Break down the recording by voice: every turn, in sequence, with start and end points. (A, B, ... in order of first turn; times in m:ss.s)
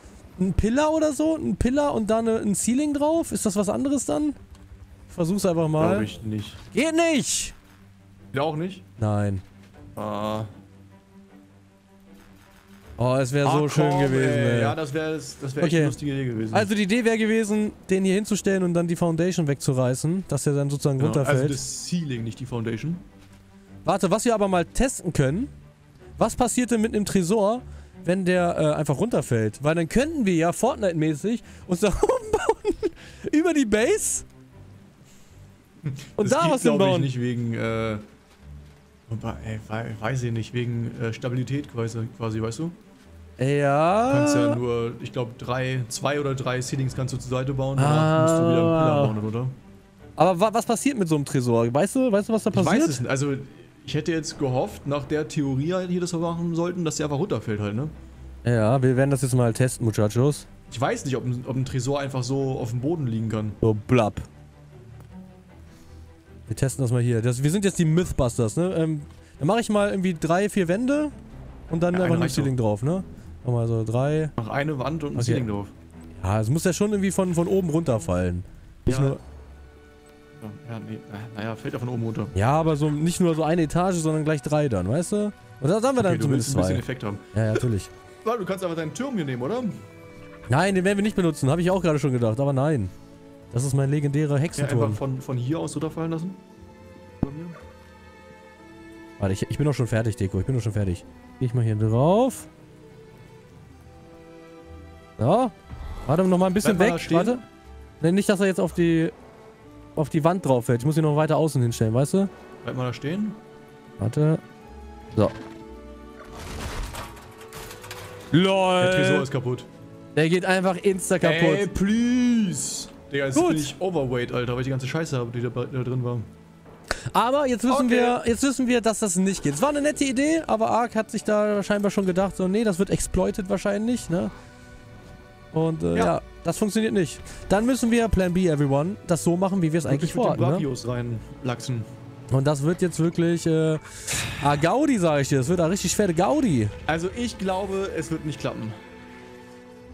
0:00.4-0:04.4 A
0:05.1-0:06.1 A
0:05.8-0:06.6 B
0:06.7-0:07.5 A
0:08.3-0:08.8 B
0:09.0-0:09.4 A
0:10.0-0:10.5 B
0:13.0-0:14.8 A
0:13.4-0:16.7 B
0:15.6-0:16.0 A
0:16.5-0:21.6 A
0:21.0-0:23.0 B
0:23.8-0:25.5 A
0:26.2-0:34.2 A
0:35.8-0:38.0 B
0:36.2-0:37.1 A
0:39.1-0:42.8 B
0:43.4-0:44.6 A
0:44.1-0:49.6 B
0:47.8-0:49.1 A
0:50.2-0:53.0 A
0:52.5-0:57.9 B
0:58.4-1:00.5 A
1:00.7-1:03.6 B
1:03.6-1:04.3 A
1:06.5-1:11.1 A
1:11.7-1:14.3 A
1:11.9-1:12.5 B
1:14.4-1:15.7 B
1:15.2-1:15.5 A
1:16.2-1:19.2 A
1:18.8-1:19.2 B
1:20.4-1:22.3 B
1:22.3-1:27.9 A
1:26.0-1:27.6 B
1:28.2-1:29.8 B
1:30.5-1:32.9 A
1:33.5-1:35.0 A
1:34.6-1:36.4 B
1:37.2-1:37.6 B
1:39.2-1:42.5 A
1:45.2-1:45.5 A
1:46.0-1:47.4 A
1:46.6-1:47.4 B
1:48.0-1:49.1 A
1:50.0-1:52.3 A
1:52.6-1:53.4 B
1:54.0-1:54.4 A
1:58.3-1:59.3 A
1:58.8-1:59.7 B
2:00.2-2:01.7 A
2:01.2-2:06.3 B
2:03.3-2:03.7 A
2:07.1-2:14.3 A
2:07.7-2:08.2 B
2:15.5-2:20.6 A
2:19.9-2:21.9 B
2:22.3-2:26.7 A
2:26.9-2:28.8 B